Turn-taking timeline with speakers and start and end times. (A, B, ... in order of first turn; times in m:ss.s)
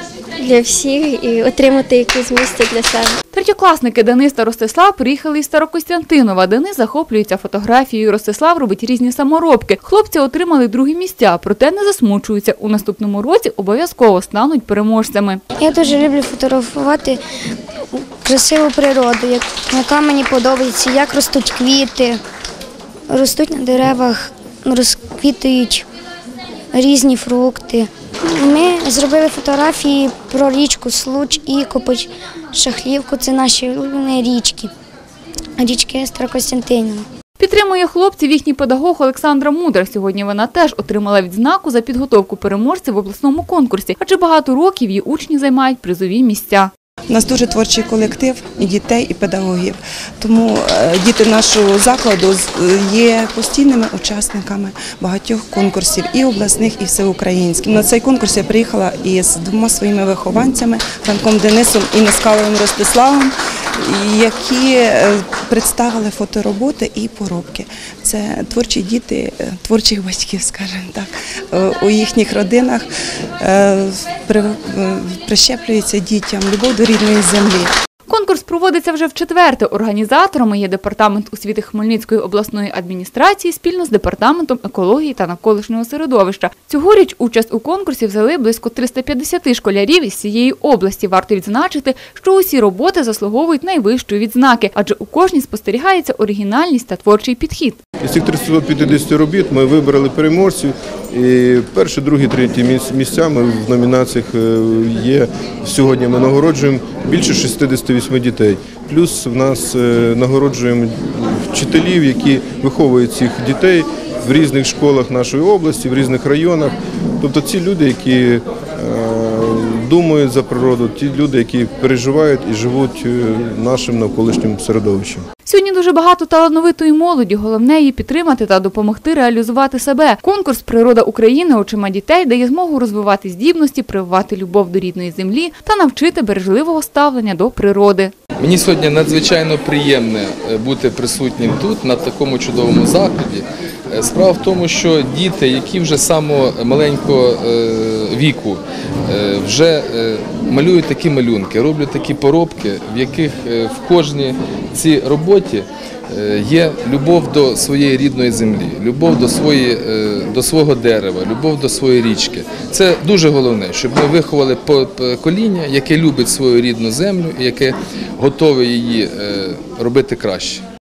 0:00.4-0:03.2 A
0:03.3-0:15.4 B
0:15.6-0:17.2 C
0:18.0-0:22.2 C
0:23.1-0:25.8 C
0:26.7-0:34.7 C
0:35.6-0:37.0 C
0:37.4-0:46.7 B
0:47.1-1:12.9 D
1:13.4-1:17.7 D
1:18.1-1:37.8 B
1:38.0-2:05.2 E
2:05.4-2:18.1 B
2:18.4-2:50.6 F